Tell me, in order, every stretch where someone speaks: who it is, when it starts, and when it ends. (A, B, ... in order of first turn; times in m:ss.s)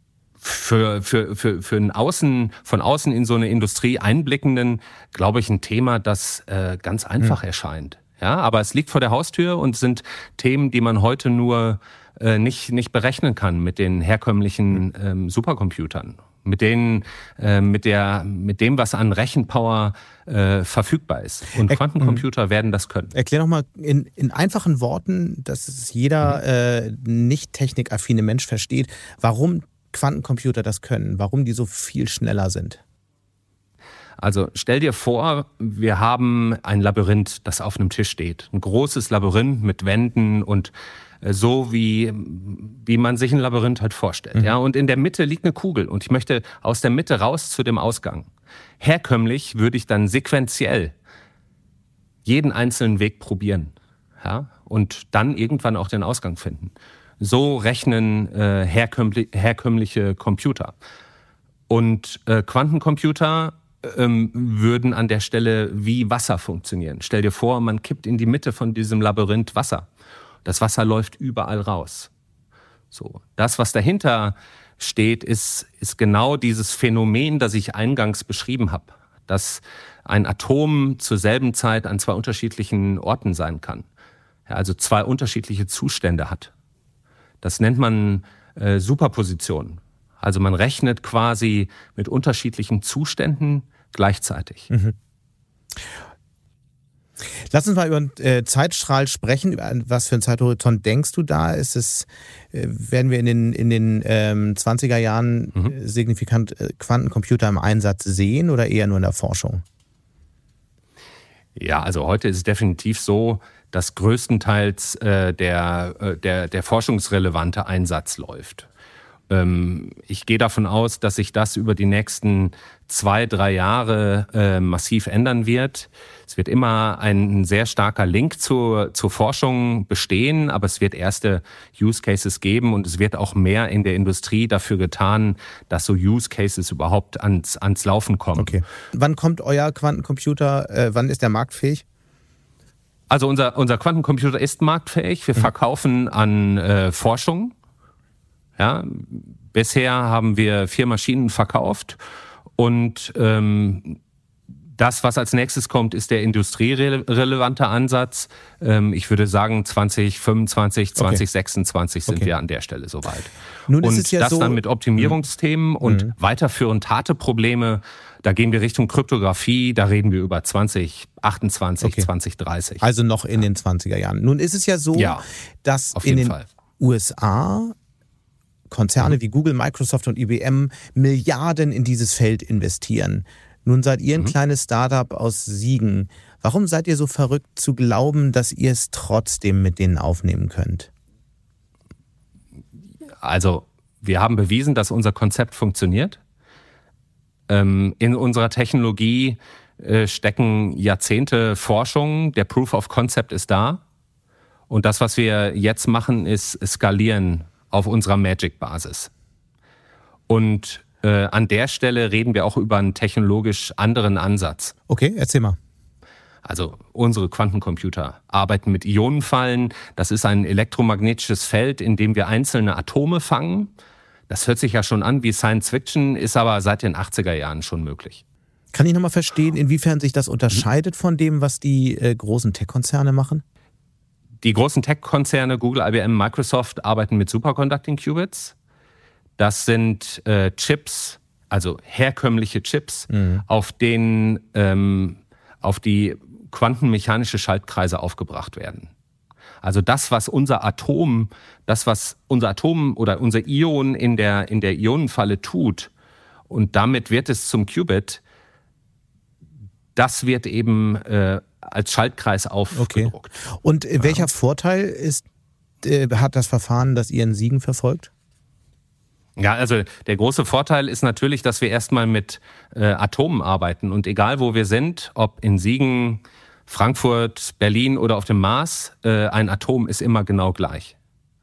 0:00.4-0:23.1 A
0:21.7-0:22.2 B
0:23.1-0:32.8 B
0:34.2-0:48.3 A
0:48.8-0:50.9 A
0:52.2-1:00.8 A
1:01.7-1:09.9 A
1:10.4-1:12.1 A
1:12.9-1:23.9 A
1:24.5-1:26.5 A
1:27.4-1:34.7 A
1:34.7-1:35.0 B
1:37.5-1:49.6 B
1:51.6-1:58.7 A
1:59.3-2:18.6 A
2:18.4-2:21.8 B
2:23.1-2:27.5 A
2:28.6-2:32.0 A
2:32.6-2:34.0 A
2:34.8-2:52.8 A
2:41.0-2:41.2 B
2:43.7-2:45.1 B
2:45.8-2:46.1 B
2:51.8-2:52.1 B
2:52.8-2:57.8 B
2:55.0-2:55.2 A
2:56.0-2:56.5 A
2:58.7-3:10.9 B
3:13.2-3:16.2 A
3:17.5-3:23.8 A
3:24.7-3:29.1 A
3:30.3-3:34.7 A
3:34.9-3:35.6 B
3:36.4-3:43.7 A
3:44.3-3:48.2 A
3:48.7-3:53.4 B
3:54.4-3:58.6 A
3:59.4-4:08.9 A
4:03.1-4:03.4 B
4:09.6-4:15.9 A
4:16.5-4:18.2 A
4:20.0-4:23.3 A
4:22.8-4:25.2 B
4:25.8-4:28.1 B
4:29.4-4:40.9 A